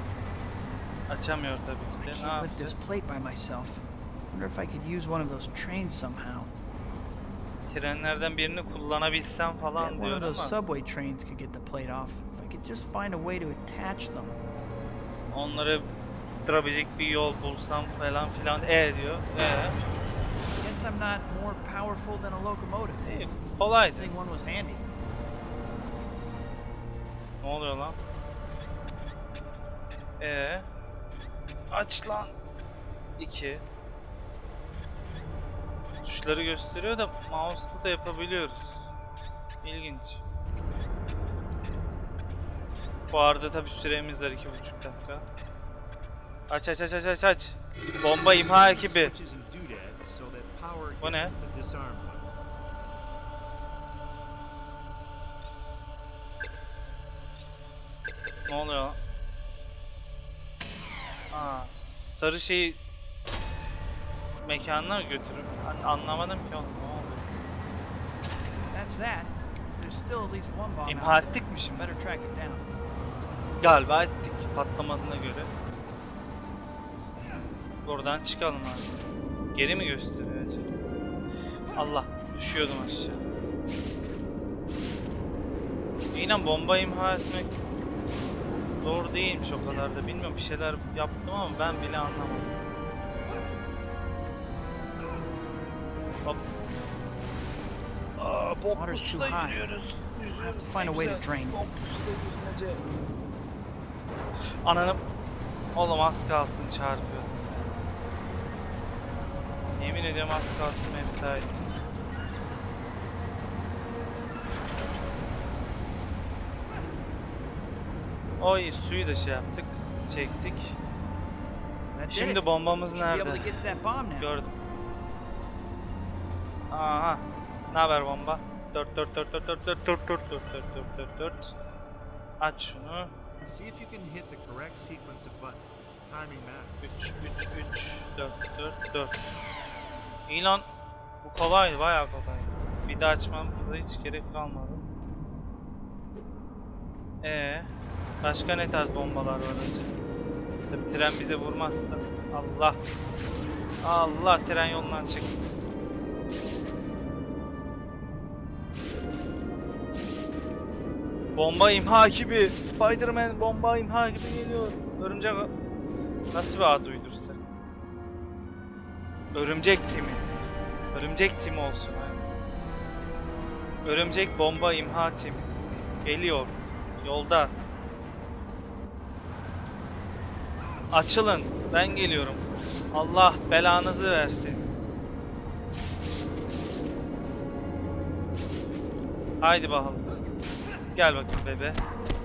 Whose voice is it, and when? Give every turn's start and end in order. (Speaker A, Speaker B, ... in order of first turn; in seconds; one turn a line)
Speaker A: 1.1-2.9
Speaker B: 2.0-6.5
Speaker A: 7.7-10.6
Speaker B: 9.8-14.4
Speaker A: 15.3-15.9
Speaker A: 16.4-19.8
Speaker B: 20.6-23.2
Speaker A: 23.0-24.1
Speaker B: 24.0-24.9
Speaker A: 27.4-28.0
Speaker A: 30.2-30.7
Speaker A: 31.7-32.3
Speaker A: 33.2-33.6
Speaker A: 36.0-38.7
Speaker A: 39.6-40.2
Speaker A: 43.1-45.2
Speaker A: 46.5-49.1
Speaker C: 48.5-52.3
Speaker A: 51.0-51.4
Speaker A: 58.5-59.0
Speaker A: 61.3-62.8
Speaker A: 64.4-67.3
Speaker B: 68.7-72.7
Speaker A: 70.9-72.0
Speaker A: 73.6-75.5
Speaker A: 77.8-78.9
Speaker A: 79.5-80.7
Speaker A: 81.8-83.2
Speaker A: 86.1-87.5
Speaker A: 88.8-92.6
Speaker A: 98.2-102.8
Speaker B: 98.7-99.7
Speaker B: 100.4-101.6
Speaker A: 104.6-105.0
Speaker A: 105.8-107.7
Speaker A: 109.7-111.5
Speaker A: 118.4-120.8
Speaker B: 122.0-124.3
Speaker A: 122.1-123.5
Speaker A: 124.2-124.5
Speaker A: 126.7-131.5
Speaker A: 132.4-133.1
Speaker C: 133.4-136.8
Speaker A: 136.8-139.3
Speaker A: 140.3-140.7
Speaker A: 141.2-144.8
Speaker A: 147.2-147.7
Speaker A: 148.2-149.9
Speaker A: 150.7-152.8
Speaker A: 153.8-155.3
Speaker A: 161.4-165.5
Speaker A: 166.3-167.4
Speaker A: 169.3-170.2
Speaker A: 170.9-172.2
Speaker A: 173.8-175.5
Speaker A: 176.0-177.5
Speaker A: 180.9-184.7
Speaker A: 189.4-190.1
Speaker A: 190.9-191.8